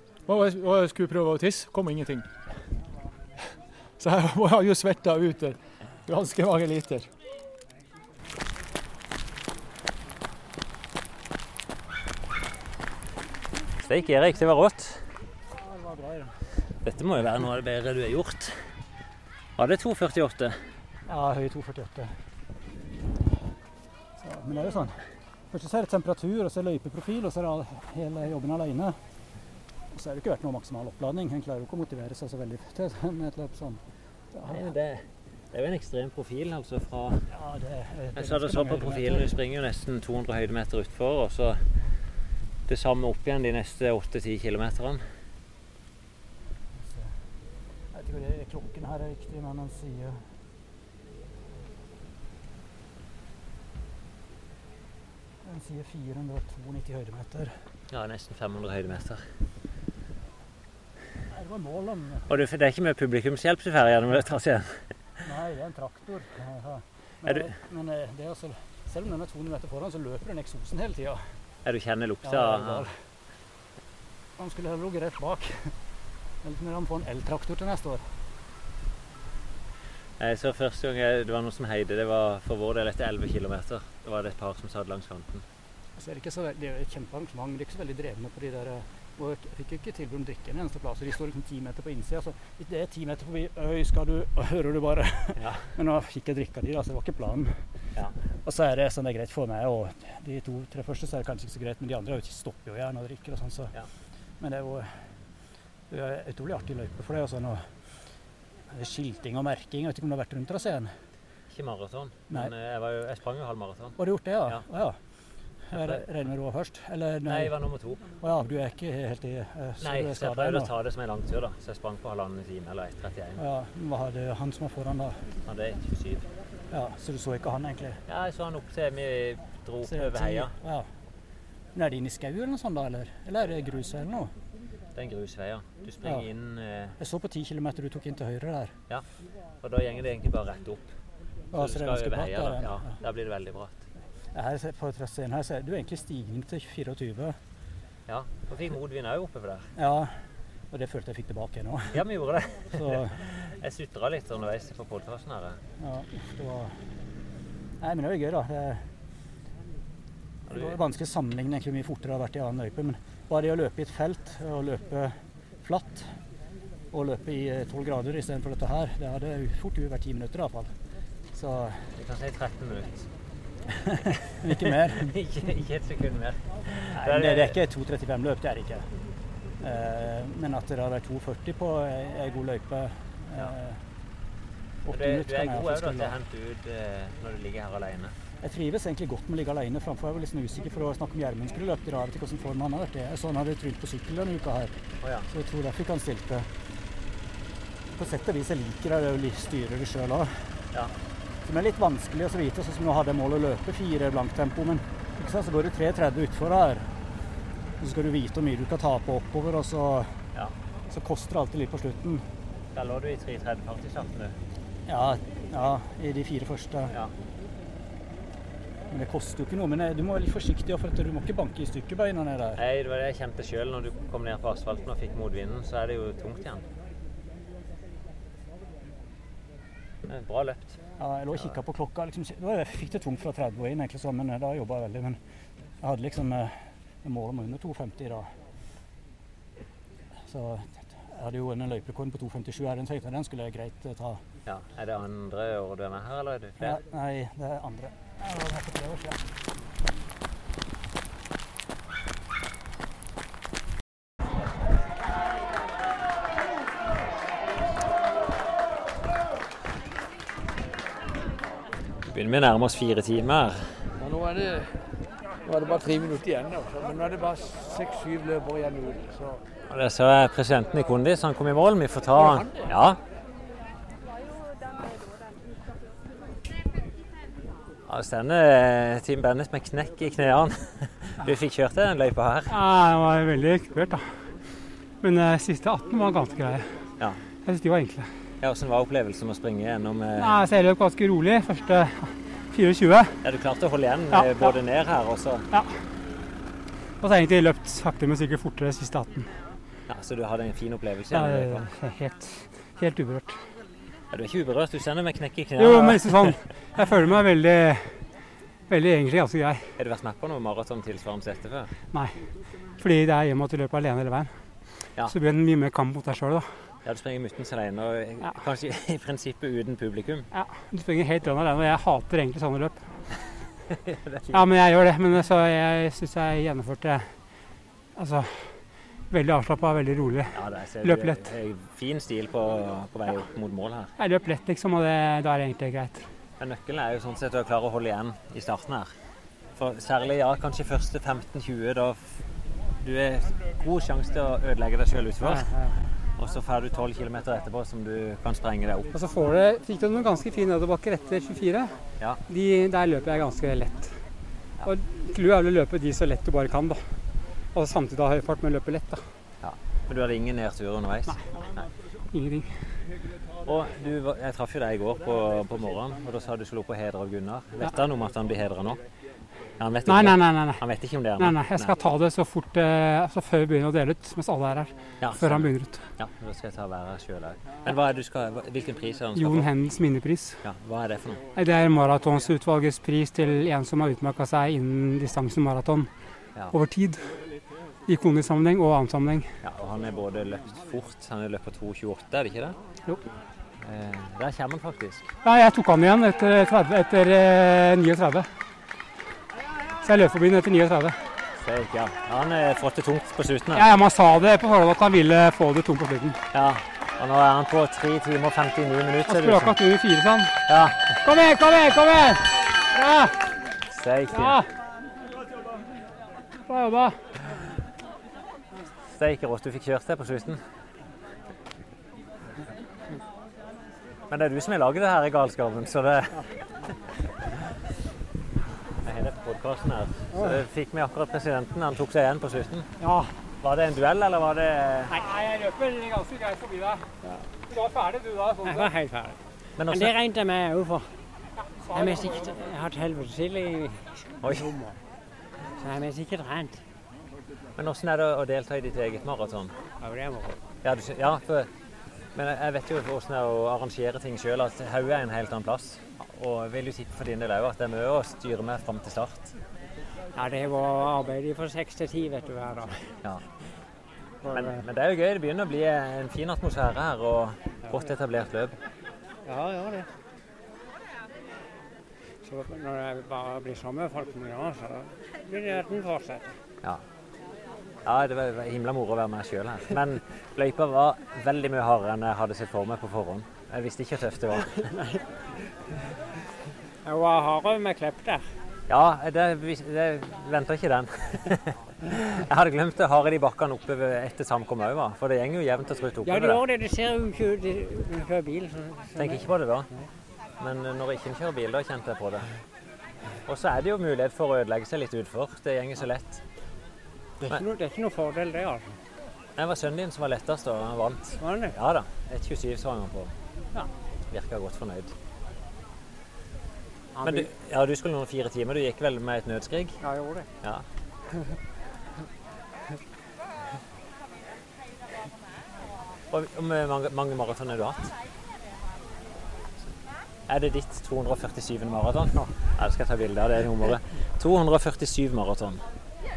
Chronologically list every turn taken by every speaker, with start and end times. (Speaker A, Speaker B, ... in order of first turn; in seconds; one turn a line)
Speaker A: 0.3-2.3
Speaker A: 4.0-7.1
Speaker B: 13.8-15.1
Speaker C: 15.5-16.4
Speaker B: 16.8-18.7
Speaker B: 19.6-20.6
Speaker C: 21.1-22.2
Speaker C: 24.2-29.0
Speaker C: 29.9-33.8
Speaker C: 34.3-34.7
Speaker B: 34.5-37.2
Speaker C: 37.3-39.3
Speaker B: 38.1-41.7
Speaker B: 42.7-45.0
Speaker C: 46.8-47.2
Speaker C: 47.9-50.3
Speaker C: 55.4-57.7
Speaker B: 57.9-59.2
Speaker C: 61.3-62.3
Speaker B: 62.3-64.9
Speaker C: 65.2-71.4
Speaker B: 71.6-72.9
Speaker C: 72.2-73.0
Speaker C: 74.4-75.8
Speaker C: 76.4-78.2
Speaker B: 80.2-85.5
Speaker C: 86.0-97.7
Speaker B: 95.3-95.7
Speaker C: 98.4-103.8
Speaker C: 104.4-105.2
Speaker C: 105.9-107.8
Speaker C: 108.7-110.9
Speaker B: 111.5-114.7
Speaker C: 114.0-115.0
Speaker C: 115.7-117.5
Speaker B: 115.7-116.0
Speaker B: 117.2-118.1
Speaker C: 118.2-120.7
Speaker B: 119.8-123.4
Speaker C: 123.4-125.2
Speaker B: 125.4-126.3
Speaker C: 126.7-128.0
Speaker B: 128.1-130.5
Speaker C: 129.8-130.9
Speaker C: 131.7-134.3
Speaker B: 133.4-133.7
Speaker B: 134.9-137.0
Speaker C: 137.0-138.7
Speaker B: 139.6-140.9
Speaker C: 141.5-143.0
Speaker B: 141.5-143.8
Speaker C: 144.3-147.4
Speaker B: 148.1-149.7
Speaker C: 149.8-152.0
Speaker B: 151.9-155.6
Speaker C: 152.7-153.2
Speaker C: 155.8-156.8
Speaker C: 157.8-158.9
Speaker B: 160.5-160.8
Speaker C: 160.5-166.2
Speaker C: 166.9-170.7
Speaker C: 171.3-171.9
Speaker B: 171.9-173.1
Speaker C: 173.9-175.2
Speaker B: 174.5-177.6
Speaker C: 176.7-178.9
Speaker C: 179.6-183.8
Speaker C: 184.8-186.1
Speaker B: 184.9-188.2
Speaker C: 188.4-194.7
Speaker B: 195.0-195.3
Speaker C: 195.3-196.5
Speaker C: 197.9-200.6
Speaker C: 201.4-207.0
Speaker C: 207.8-210.2
Speaker C: 210.9-212.2
Speaker B: 212.7-214.4
Speaker C: 214.9-217.0
Speaker C: 218.9-222.6
Speaker B: 222.6-226.7
Speaker B: 230.0-230.8
Speaker C: 231.0-235.2
Speaker B: 231.3-231.6
Speaker C: 235.8-238.3
Speaker C: 240.2-244.2
Speaker B: 244.4-246.8
Speaker C: 246.6-249.3
Speaker B: 262.0-263.9
Speaker D: 264.0-264.8
Speaker D: 265.4-269.4
Speaker B: 269.7-273.0
Speaker B: 277.8-282.6
Speaker E: 282.5-284.3
Speaker E: 285.0-286.8
Speaker E: 287.4-288.1
Speaker B: 288.4-290.4
Speaker E: 290.2-293.2
Speaker B: 293.2-295.4
Speaker E: 294.1-294.6
Speaker E: 295.5-295.8
Speaker E: 297.0-299.4
Speaker B: 299.9-301.7
Speaker E: 301.1-303.4
Speaker B: 304.1-306.3
Speaker E: 305.6-308.1
Speaker E: 308.7-309.7
Speaker B: 309.8-311.7
Speaker E: 311.9-312.2
Speaker E: 312.8-314.4
Speaker E: 315.0-316.7
Speaker B: 316.8-320.3
Speaker E: 320.3-323.0
Speaker B: 323.8-324.4
Speaker E: 324.3-327.1
Speaker E: 327.9-331.2
Speaker B: 330.3-333.9
Speaker E: 334.0-336.1
Speaker B: 336.4-338.9
Speaker B: 339.6-342.2
Speaker B: 342.8-345.5
Speaker B: 346.1-348.9
Speaker E: 348.9-354.0
Speaker E: 354.6-356.9
Speaker E: 357.5-359.0
Speaker B: 359.4-361.6
Speaker E: 362.1-362.8
Speaker B: 363.4-368.8
Speaker B: 369.6-371.8
Speaker E: 369.9-370.6
Speaker E: 371.2-375.9
Speaker B: 375.0-379.5
Speaker E: 379.1-380.4
Speaker B: 380.4-381.2
Speaker E: 381.3-385.9
Speaker E: 386.5-387.1
Speaker E: 387.9-389.3
Speaker B: 389.4-392.6
Speaker B: 393.6-395.1
Speaker E: 395.2-398.3
Speaker E: 399.8-401.0
Speaker B: 401.4-403.7
Speaker E: 403.5-406.2
Speaker B: 406.3-409.6
Speaker E: 409.1-410.4
Speaker B: 410.4-410.9
Speaker E: 410.9-413.3
Speaker B: 413.7-414.4
Speaker E: 414.1-414.5
Speaker E: 416.4-417.0
Speaker B: 418.9-420.4
Speaker B: 424.1-426.3
Speaker B: 428.8-432.7
Speaker F: 432.8-433.1
Speaker B: 433.4-435.0
Speaker E: 434.9-436.8
Speaker F: 437.0-437.3
Speaker E: 437.5-438.7
Speaker F: 438.4-440.9
Speaker B: 439.6-439.9
Speaker E: 441.7-442.4
Speaker F: 441.7-444.8
Speaker B: 444.2-444.6
Speaker F: 445.6-446.6
Speaker B: 447.6-449.6
Speaker F: 449.8-450.4
Speaker B: 450.6-451.5
Speaker B: 452.1-459.3
Speaker F: 460.1-462.8
Speaker B: 463.0-463.3
Speaker F: 464.2-464.6
Speaker B: 464.3-468.6
Speaker F: 469.2-469.9
Speaker F: 472.2-476.3
Speaker B: 477.8-484.5
Speaker F: 486.8-488.3
Speaker B: 488.7-496.4
Speaker F: 496.0-499.9
Speaker B: 498.9-499.7
Speaker B: 500.4-502.3
Speaker B: 503.2-506.2
Speaker F: 507.2-508.7
Speaker B: 509.4-513.1
Speaker F: 511.2-511.6
Speaker B: 514.1-514.9
Speaker F: 516.9-517.3
Speaker B: 517.0-519.8
Speaker F: 519.8-520.3
Speaker B: 526.1-527.9
Speaker B: 530.3-535.6